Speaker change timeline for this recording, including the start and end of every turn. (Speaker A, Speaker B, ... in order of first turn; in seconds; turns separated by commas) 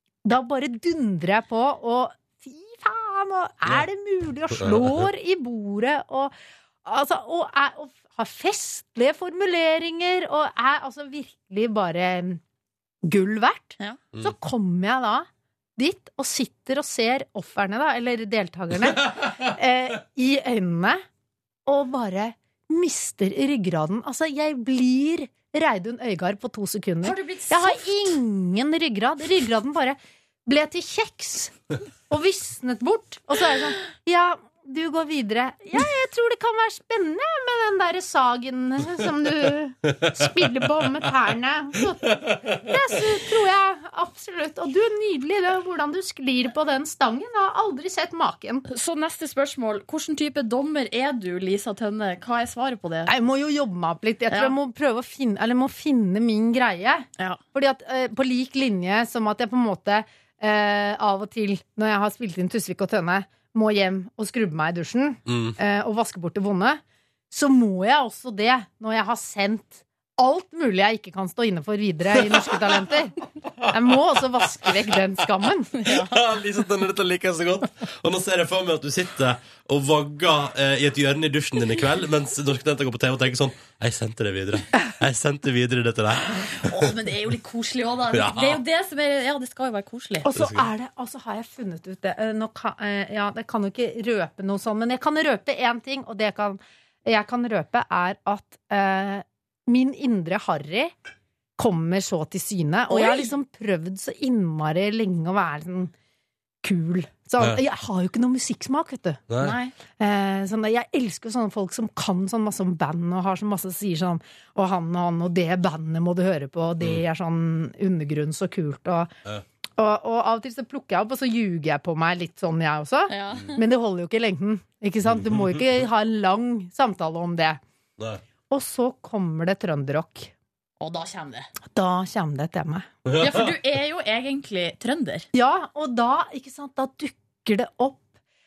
Speaker A: 0.2-12.4, Speaker B: 4.6-5.0, Speaker A: 13.0-21.0, Speaker A: 21.6-31.5, Speaker C: 27.0-28.1, Speaker A: 32.1-48.6, Speaker B: 42.0-42.6, Speaker C: 48.7-53.1, Speaker A: 53.0-73.2, Speaker B: 65.3-65.5, Speaker A: 73.7-75.7, Speaker C: 75.8-76.2, Speaker B: 75.8-86.9, Speaker C: 86.5-90.2, Speaker B: 88.1-88.6, Speaker A: 90.2-100.9, Speaker B: 90.3-90.7, Speaker A: 101.6-105.9, Speaker C: 102.9-103.3, Speaker A: 106.6-109.2, Speaker B: 109.3-109.6, Speaker C: 109.4-109.7, Speaker A: 110.0-119.1, Speaker A: 119.8-127.6, Speaker C: 123.1-123.6, Speaker B: 125.0-125.6, Speaker A: 128.5-130.3, Speaker C: 130.8-131.5, Speaker A: 131.7-132.9, Speaker B: 133.1-133.5, Speaker C: 133.2-135.3, Speaker A: 135.3-138.0